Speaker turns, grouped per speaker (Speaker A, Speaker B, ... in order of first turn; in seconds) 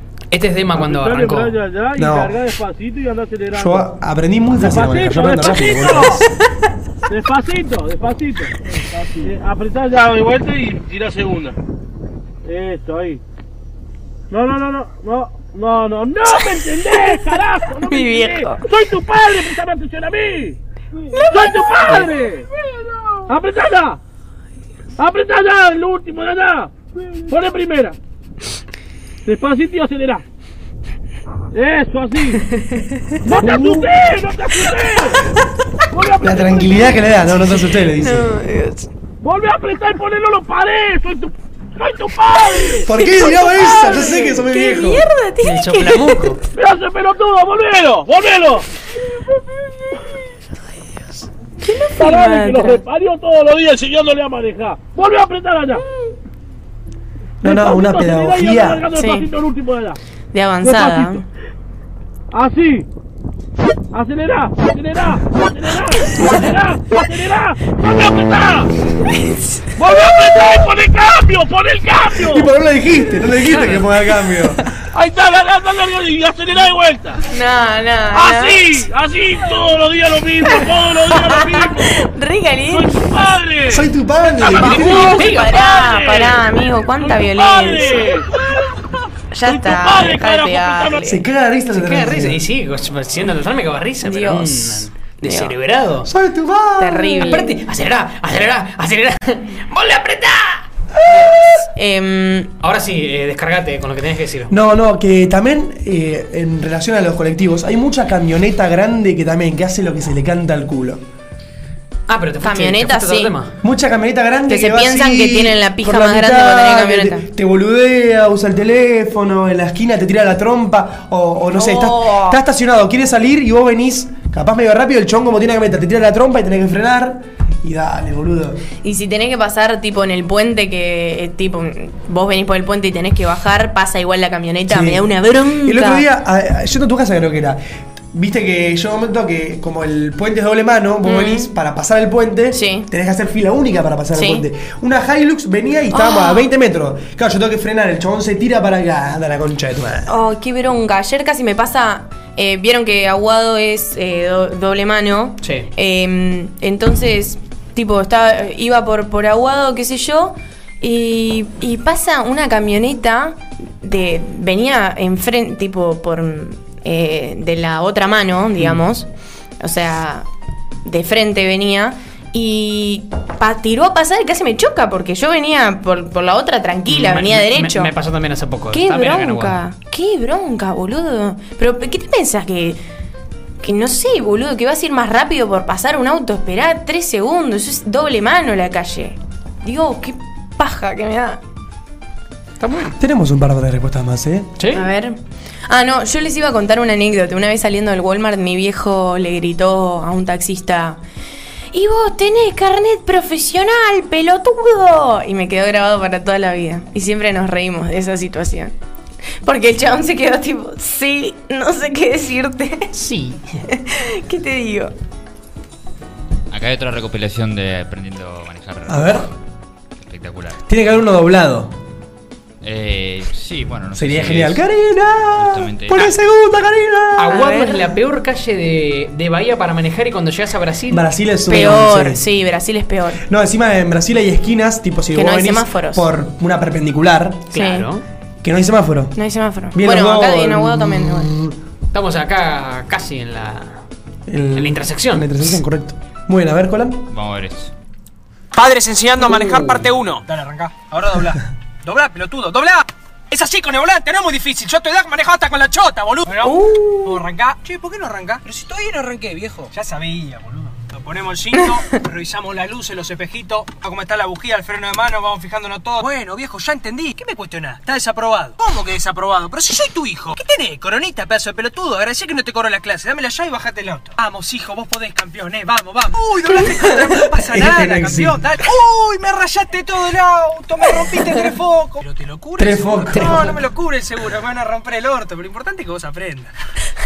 Speaker A: 0.3-1.6, 45.4-46.4, 73.5-73.8, 84.5-85.6, 91.7-96.1, 97.2-100.7, 102.6-104.5, 112.1-113.5, 155.4-155.7, 176.9-179.6, 192.6-192.9, 194.6-194.9, 212.9-213.6, 227.2-231.1, 237.5-238.0, 241.9-243.8, 244.5-245.4
Speaker B: 0.7-3.9, 4.6-6.2, 7.1-11.6, 12.4-13.2, 14.3-20.6, 21.2-22.5, 23.3-24.0, 25.0-26.7, 27.3-28.0, 29.2-30.2, 31.5-32.4, 33.2-35.2, 35.9-37.1, 39.2-42.9, 44.0-44.3, 46.5-48.6, 52.0-55.8, 57.4-60.0, 60.6-61.2, 62.3-62.9, 63.9-68.7, 69.8-72.5, 74.9-77.2, 78.1-82.0, 82.7-83.9, 84.5-86.4, 87.0-88.5, 89.4-91.0
Speaker C: 1.9-2.3, 3.5-6.2, 33.4-33.9, 36.2-38.3, 42.8-45.0, 57.4-58.9, 72.2-74.6, 83.7-85.1, 91.0-92.4, 96.0-97.3, 104.5-111.0, 113.6-128.6, 134.7-135.1, 135.6-137.6, 138.1-150.1, 193.0-194.5, 218.9-219.3, 220.7-221.7, 223.9-227.4, 230.9-232.2, 233.3-237.5, 238.4-239.2, 239.7-241.5, 244.3-247.1, 277.4-278.4, 282.6-283.6
Speaker D: 16.3-18.6, 21.2-22.1, 38.0-38.9, 42.9-46.3, 51.6-52.8, 58.9-59.3, 60.3-61.2, 69.2-69.4, 77.3-78.8, 80.4-83.2, 84.5-88.1, 89.3-91.2, 94.0-95.5, 96.8-97.6, 101.7-102.5, 112.4-113.3, 114.5-117.2, 121.5-122.4, 128.8-136.1, 141.0-141.5, 142.5-142.9, 144.1-144.4, 145.9-146.5, 150.1-169.1, 169.6-170.3, 170.8-177.9, 178.7-182.8, 183.6-191.4, 194.7-195.2, 195.7-201.0, 201.7-208.7, 209.4-212.9, 213.7-214.9, 227.3-227.9, 231.5-233.2, 235.1-236.1, 237.5-237.8, 239.2-241.3, 249.3-249.8, 256.4-257.2
Speaker E: 216.5-219.3, 220.0-220.6, 222.6-224.6, 225.3-226.1, 247.1-247.7
Speaker F: 248.5-286.5